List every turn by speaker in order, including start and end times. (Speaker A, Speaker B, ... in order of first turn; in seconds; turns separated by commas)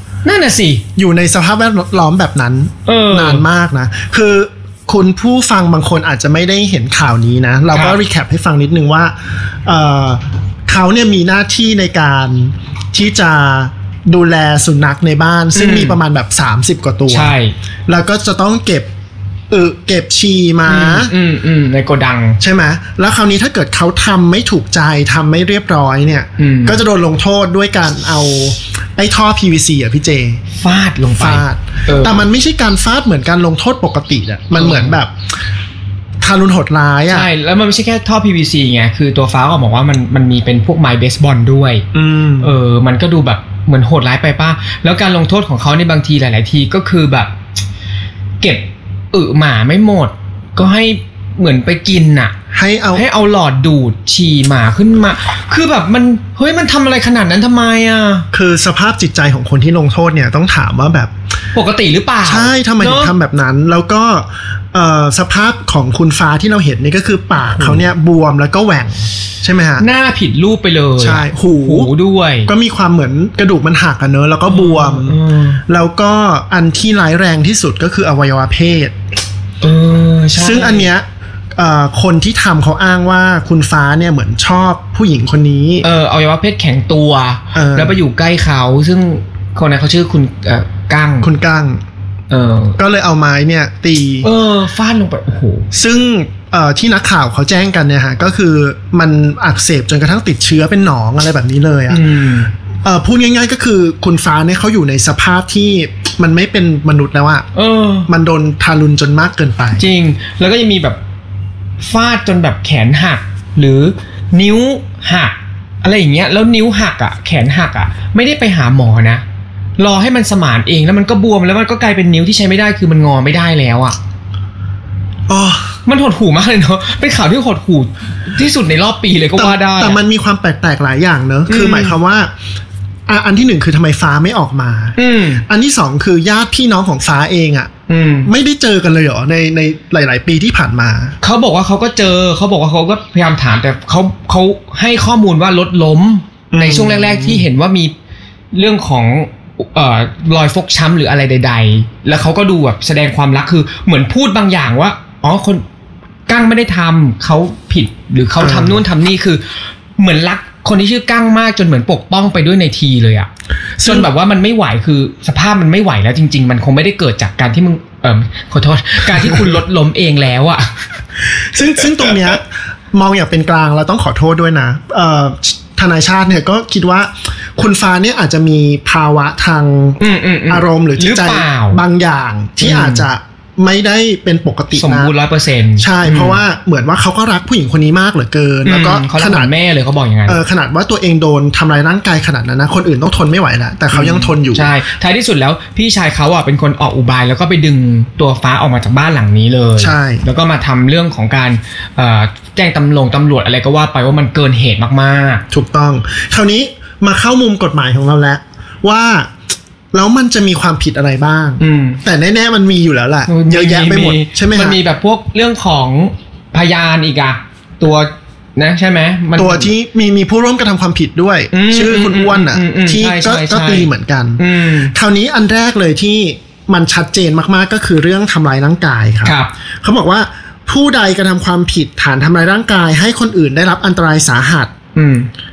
Speaker A: 0.2-0.8, Speaker B: 0.9-17.3, Speaker A: 2.9-3.5, Speaker A: 7.7-8.0, Speaker A: 15.5-16.0, Speaker A: 17.1-17.6, Speaker B: 17.9-18.9, Speaker B: 19.5-21.1, Speaker A: 20.6-22.4, Speaker B: 22.4-30.4, Speaker A: 26.4-26.8, Speaker A: 30.5-32.2, Speaker B: 31.1-35.1, Speaker A: 34.5-35.0, Speaker B: 36.2-37.3, Speaker A: 37.1-41.9, Speaker B: 41.9-42.5, Speaker A: 42.4-47.3, Speaker A: 48.4-52.3, Speaker B: 52.5-53.0, Speaker A: 52.9-58.3, Speaker B: 58.3-61.1, Speaker A: 61.5-63.1, Speaker B: 62.2-69.8, Speaker A: 67.3-67.9, Speaker A: 69.8-72.5, Speaker B: 71.0-71.9, Speaker B: 72.5-78.9, Speaker A: 74.5-75.6, Speaker A: 79.6-80.9, Speaker B: 80.3-85.8, Speaker A: 85.8-91.3, Speaker B: 87.5-88.0, Speaker B: 91.2-91.8, Speaker A: 92.3-92.8, Speaker B: 92.8-94.3, Speaker A: 94.2-95.7, Speaker B: 95.7-102.0, Speaker A: 101.9-102.5, Speaker B: 102.8-107.5, Speaker A: 107.5-108.1, Speaker B: 108.1-109.8, Speaker A: 109.8-111.0, Speaker A: 111.8-119.2, Speaker A: 119.8-124.0, Speaker B: 125.3-125.8, Speaker A: 125.8-130.0, Speaker B: 129.3-132.3, Speaker A: 131.5-132.0, Speaker B: 133.1-137.7, Speaker A: 135.0-135.4, Speaker A: 137.9-138.3, Speaker B: 138.2-141.2, Speaker A: 141.2-147.9, Speaker B: 146.5-147.4, Speaker A: 148.5-155.6, Speaker A: 156.3-170.8, Speaker B: 158.4-158.8, Speaker B: 163.8-164.1, Speaker B: 171.5-185.2, Speaker A: 180.0-181.8, Speaker A: 182.6-183.1, Speaker A: 184.7-186.4, Speaker B: 185.8-189.5, Speaker A: 188.6-190.4, Speaker B: 190.2-194.7, Speaker A: 193.9-205.4, Speaker B: 199.8-200.2, Speaker B: 205.5-209.3, Speaker B: 209.9-214.8, Speaker A: 211.6-212.0, Speaker A: 213.3-219.7, Speaker B: 219.3-224.4, Speaker A: 221.5-224.9, Speaker B: 224.9-234.7, Speaker A: 229.2-229.5, Speaker A: 234.9-235.3